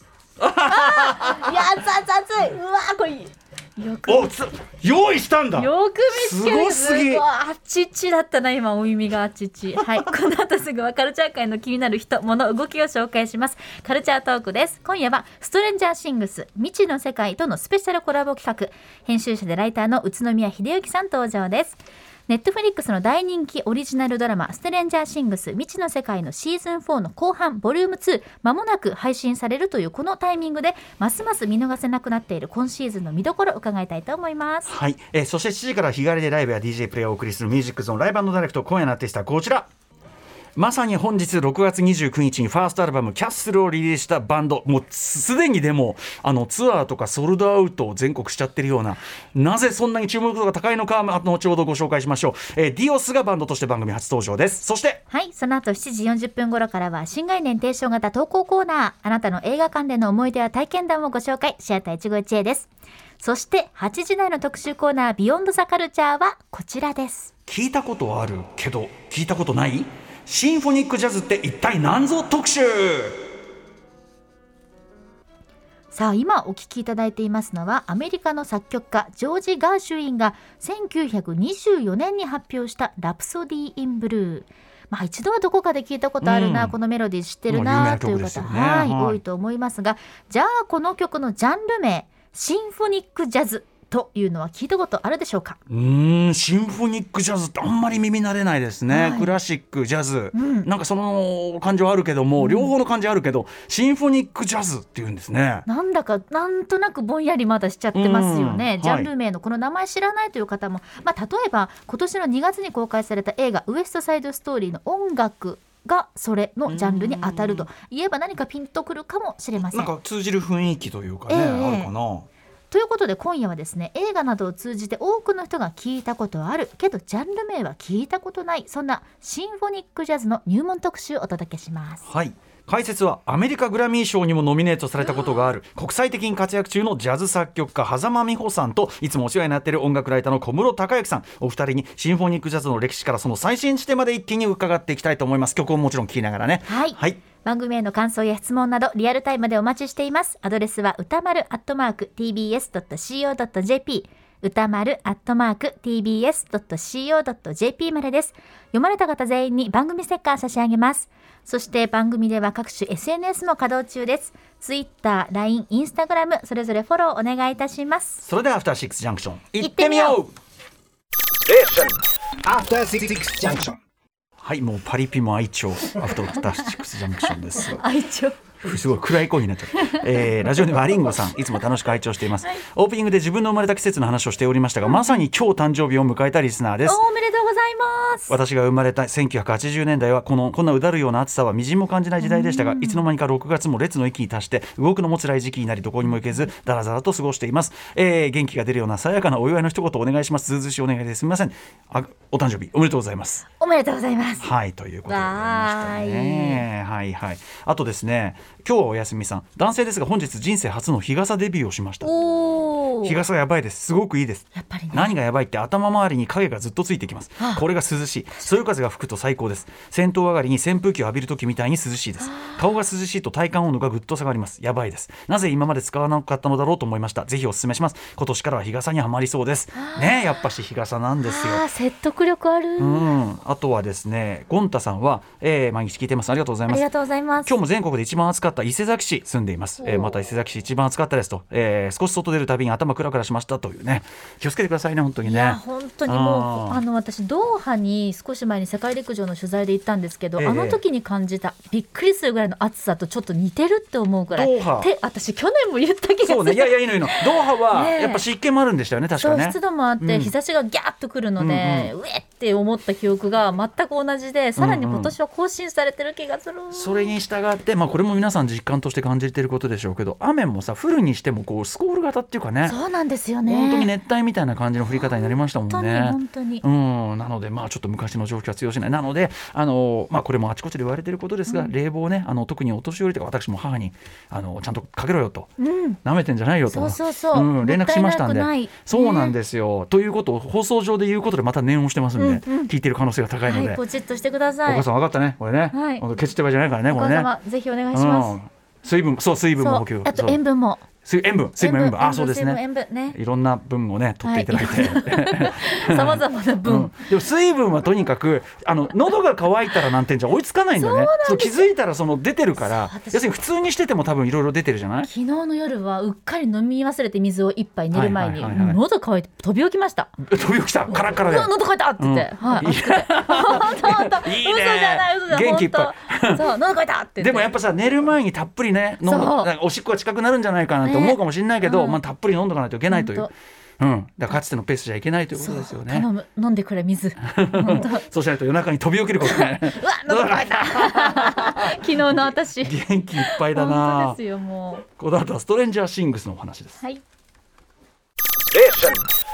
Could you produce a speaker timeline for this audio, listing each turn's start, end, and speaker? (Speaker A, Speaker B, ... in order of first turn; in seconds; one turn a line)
Speaker A: 0.4-1.6
Speaker B: 0.6-4.3
Speaker A: 4.1-7.2
Speaker B: 5.6-34.7
Speaker A: 9.8-10.1
Speaker A: 34.7-39.7
Speaker A: 40.6-55.0
Speaker B: 55.1-62.7
Speaker B: 63.2-67.3
Speaker A: 67.5-73.2
Speaker B: 75.9-95.6
Speaker A: 86.2-86.8
Speaker A: 87.5-89.2
Speaker A: 95.7-105.7
Speaker B: 98.9-99.3
Speaker B: 100.3-100.7
Speaker B: 102.4-102.7
Speaker B: 105.7-119.9
Speaker A: 107.9-109.1
Speaker A: 116.7-117.7
Speaker A: 119.7-122.3
Speaker B: 121.3-121.9
Speaker B: 122.7-132.1
Speaker A: 132.1-147.2
Speaker B: 146.7-168.2
Speaker A: 168.2-170.3
Speaker B: 169.6-170.2
Speaker C: 171.5-171.9
Speaker C: 172.4-173.8
Speaker A: 174.4-177.8
Speaker B: 177.7-178.4
Speaker A: 178.6-187.0
Speaker B: 184.9-185.2
Speaker B: 186.8-188.4
Speaker A: 188.3-203.4
Speaker B: 192.2-193.1
Speaker B: 203.6-204.5
Speaker A: 204.4-212.1
Speaker B: 205.1-206.7
Speaker B: 212.0-213.2
Speaker A: 213.0-231.7
Speaker B: 214.6-215.1
Speaker B: 222.2-222.6
Speaker B: 229.8-230.4
Speaker B: 231.2-233.1
Speaker A: 232.8-236.8
Speaker B: 236.7-237.5
Speaker A: 237.5-246.8
Speaker B: 239.8-240.1
Speaker B: 245.2-258.2
Speaker A: 250.4-250.8
Speaker A: 254.3-254.9
Speaker A: 256.2-260.3
Speaker B: 259.2-267.1
Speaker A: 261.4-261.9
Speaker A: 264.6-265.1
Speaker A: 266.7-272.8
Speaker B: 272.7-273.9
Speaker A: 273.5-285.5
Speaker B: 274.9-276.6
Speaker B: 285.6-286.0
Speaker A: 286.0-293.8
Speaker B: 286.7-289.4
Speaker B: 292.2-292.7
Speaker B: 293.4-294.9
Speaker A: 294.7-297.3
Speaker B: 295.7-296.1
Speaker B: 296.9-298.4
Speaker A: 297.9-300.4
Speaker B: 299.6-300.8
Speaker A: 301.1-302.6
Speaker B: 301.6-303.2
Speaker A: 303.1-315.1
Speaker B: 304.2-307.0
Speaker B: 310.8-311.7
Speaker B: 312.6-313.2
Speaker B: 315.0-320.1
Speaker A: 317.9-318.8
Speaker A: 320.2-326.5
Speaker B: 320.9-327.5
Speaker A: 327.2-336.1
Speaker B: 329.1-329.5
Speaker B: 330.9-332.0
Speaker B: 332.9-333.3
Speaker B: 335.4-338.0
Speaker A: 337.2-344.2
Speaker B: 339.2-344.9
Speaker A: 344.9-346.8
Speaker C: 348.6-349.0